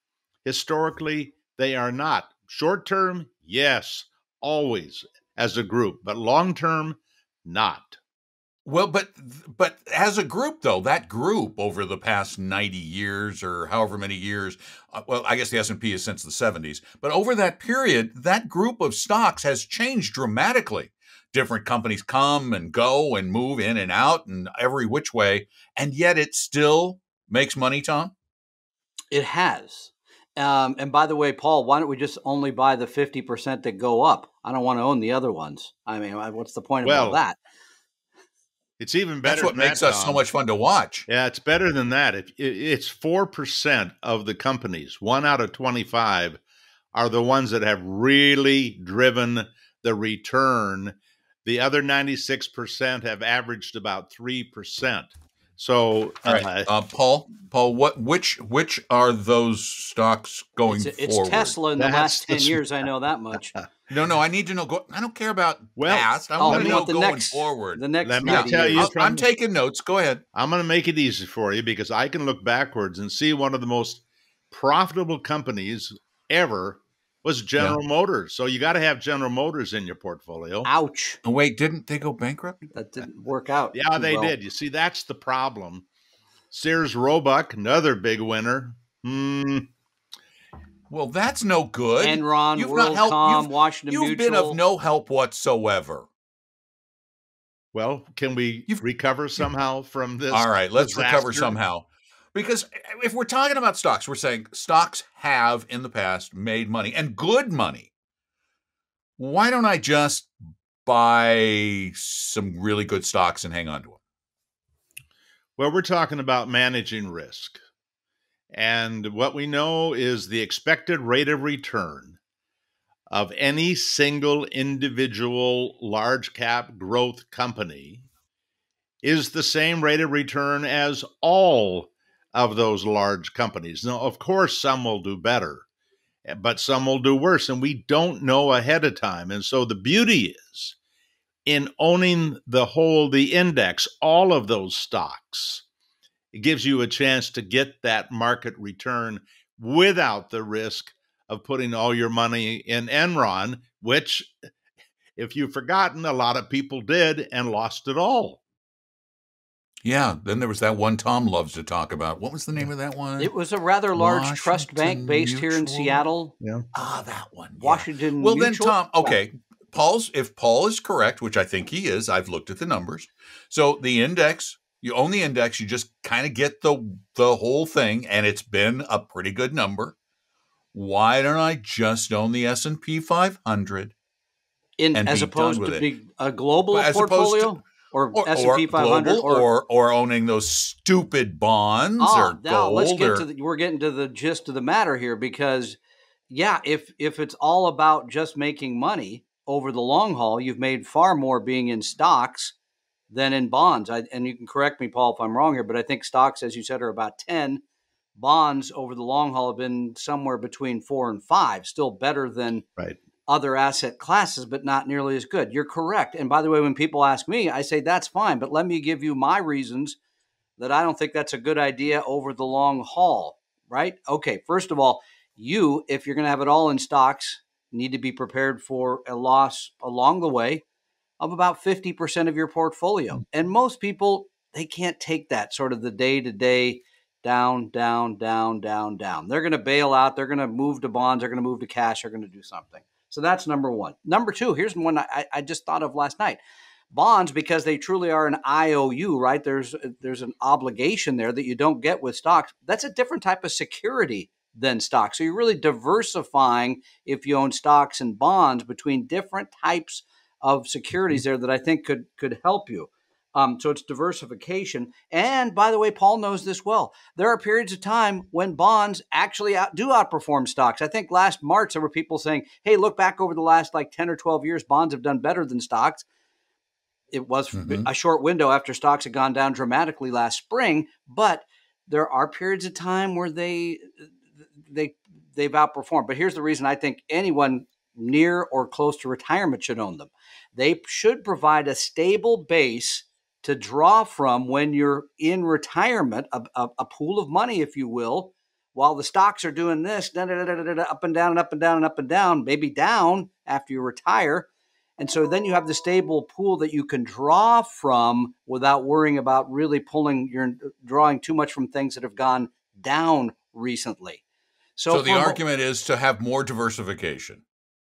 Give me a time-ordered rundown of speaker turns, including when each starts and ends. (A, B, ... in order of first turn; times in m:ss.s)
0:00.4-0:08.0 A
0:08.6-0:28.1 B
0:29.1-0:37.4 C
0:36.8-0:37.2 A
0:38.8-0:40.2 A
0:39.2-0:41.0 B
0:41.1-0:46.4 A
0:46.9-0:56.7 A
0:56.2-1:01.6 B
1:00.7-1:03.6 C
1:01.8-1:02.6 A
1:03.9-1:10.2 B
1:05.8-1:06.8 A
1:06.4-1:08.9 C
1:08.0-1:09.2 A
1:10.3-1:20.7 A
1:20.6-1:21.2 C
1:21.2-1:22.7 B
1:22.7-1:24.3 C
1:23.7-1:25.8 A
1:26.5-1:29.7 A
1:30.9-1:36.1 B
1:32.0-1:34.6 C
1:37.7-1:41.6 A
1:40.3-1:47.9 B
1:49.2-1:50.3 B
1:50.8-1:54.0 B
1:55.6-1:57.6 A
1:58.5-2:02.2 A
2:03.1-2:08.0 A
2:09.0-2:15.6 A
2:16.2-2:20.8 A
2:21.4-2:25.6 A
2:26.3-2:34.3 A
2:35.2-2:38.4 A
2:39.8-2:43.3 B
2:43.2-2:46.3 C
2:43.9-2:46.1 B
2:46.7-2:59.9 B
2:47.6-2:49.2 C
3:00.7-3:03.9 B
3:04.8-3:09.5 C
3:04.9-3:05.9 B
3:06.7-3:07.6 B
3:08.1-3:13.2 B
3:12.0-3:22.5 C
3:23.1-3:27.6 C
3:28.2-3:32.6 C
3:33.3-3:40.0 C
3:40.6-3:50.6 C
3:51.2-4:06.4 C
4:06.9-4:36.0 C
4:37.1-4:43.9 C
4:37.5-4:37.9 B
4:44.7-5:14.2 C
5:14.8-5:15.4 C
5:14.9-5:17.4 B